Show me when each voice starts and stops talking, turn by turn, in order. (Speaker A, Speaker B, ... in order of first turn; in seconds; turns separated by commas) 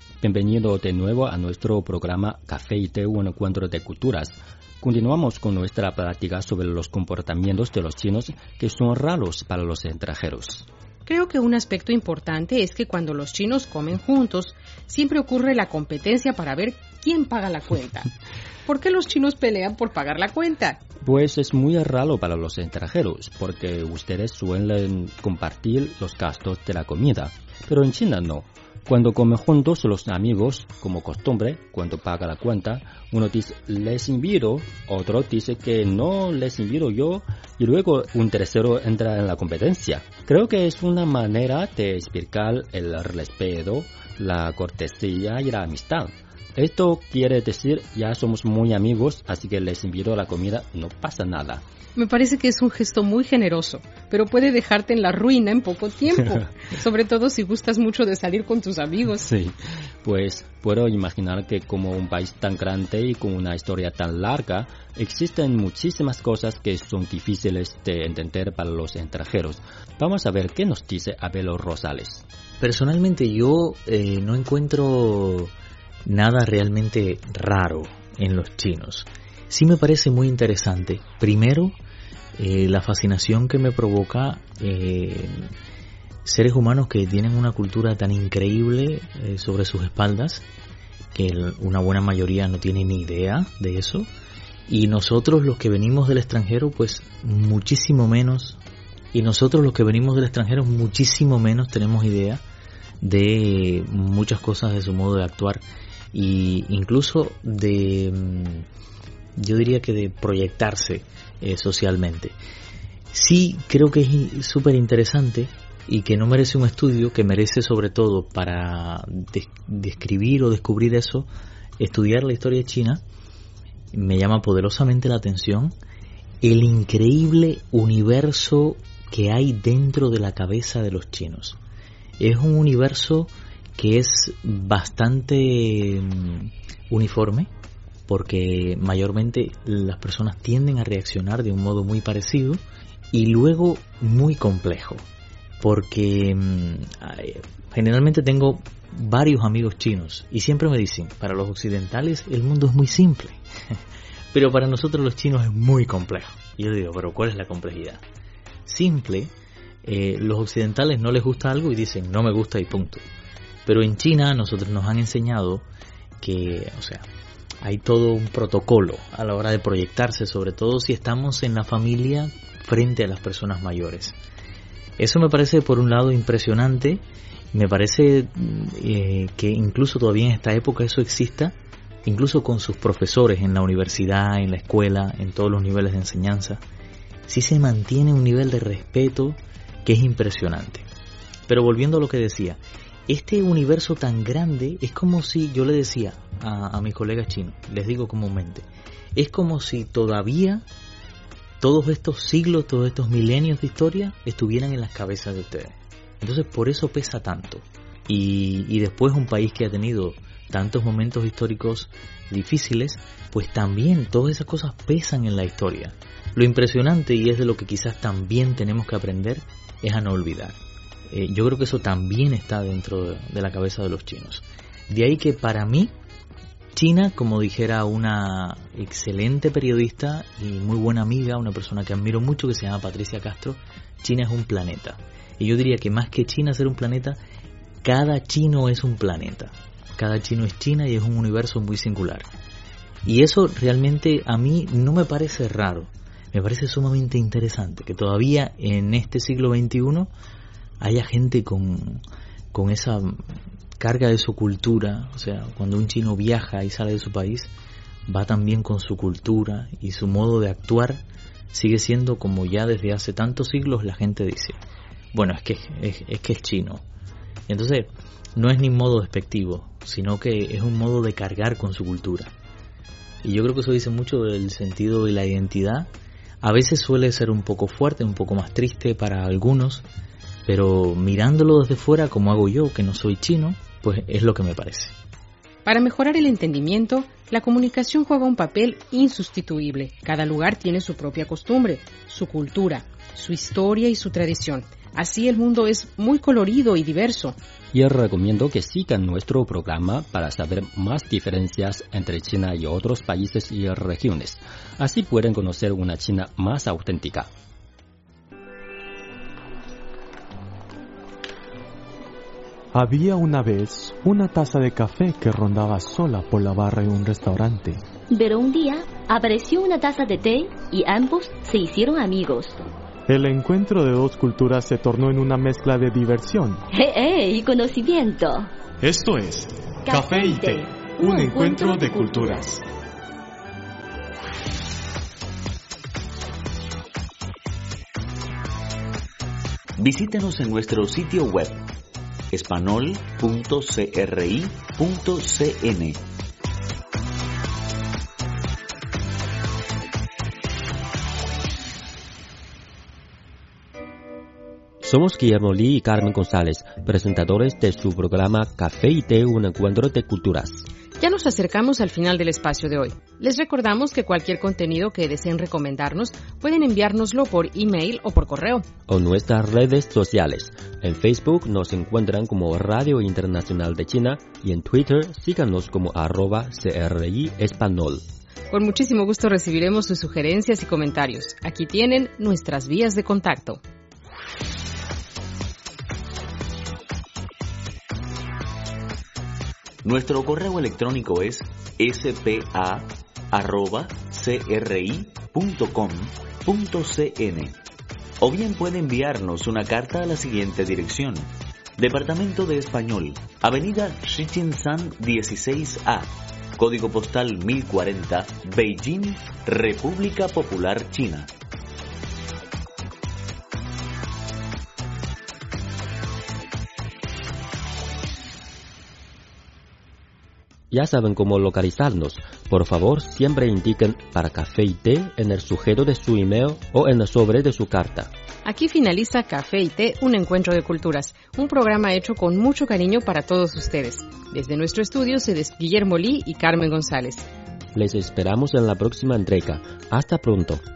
Speaker A: 0.2-10.7, Speaker B: 11.1-18.1, Speaker B: 18.6-20.8, Speaker A: 21.0-51.6, Speaker B: 52.0-59.3, Speaker A: 59.2-72.2, Speaker C: 72.6-75.5, Speaker C: 76.0-81.8, Speaker C: 82.4-85.4, Speaker C: 86.2-90.4, Speaker C: 91.1-94.1, Speaker C: 94.7-98.6, Speaker C: 99.1-102.4, Speaker C: 103.0-108.6, Speaker C: 109.4-112.3, Speaker C: 113.1-121.3, Speaker C: 121.8-123.0, Speaker C: 123.9-125.7, Speaker C: 126.4-131.6, Speaker C: 132.2-137.5, Speaker C: 138.1-145.0, Speaker C: 145.6-153.4, Speaker C: 154.3-158.0, Speaker C: 158.7-159.3, Speaker C: 159.8-163.0, Speaker C: 163.7-165.7, Speaker C: 166.2-167.1, Speaker C: 167.6-174.2, Speaker C: 175.0-186.6, Speaker C: 187.3-190.8, Speaker C: 191.5-200.6, Speaker C: 201.6-220.6, Speaker C: 221.1-225.9, Speaker C: 226.7-237.2, Speaker C: 237.8-242.3, Speaker C: 243.0-250.1, Speaker C: 250.8-253.2, Speaker C: 253.8-257.5, Speaker C: 258.1-261.0, Speaker C: 261.5-264.6, Speaker C: 265.1-266.8, Speaker C: 267.5-272.3, Speaker C: 273.2-275.9, Speaker C: 276.4-279.9, Speaker C: 280.4-284.9, Speaker B: 285.6-297.4, Speaker A: 297.7-307.3, Speaker D: 312.7-317.8, Speaker E: 318.1-322.6, Speaker D: 323.1-326.6, Speaker E: 326.7-328.5, Speaker D: 328.8-332.6, Speaker E: 329.9-332.4, Speaker F: 339.8-341.6, Speaker F: 342.3-346.0, Speaker A: 354.8-360.6, Speaker B: 361.0-368.6, Speaker A: 368.9-378.0, Speaker B: 378.5-383.6, Speaker F: 389.8-397.6, Speaker F: 398.2-411.3, Speaker A: 420.7-428.1, Speaker B: 428.4-437.2, Speaker A: 437.7-440.6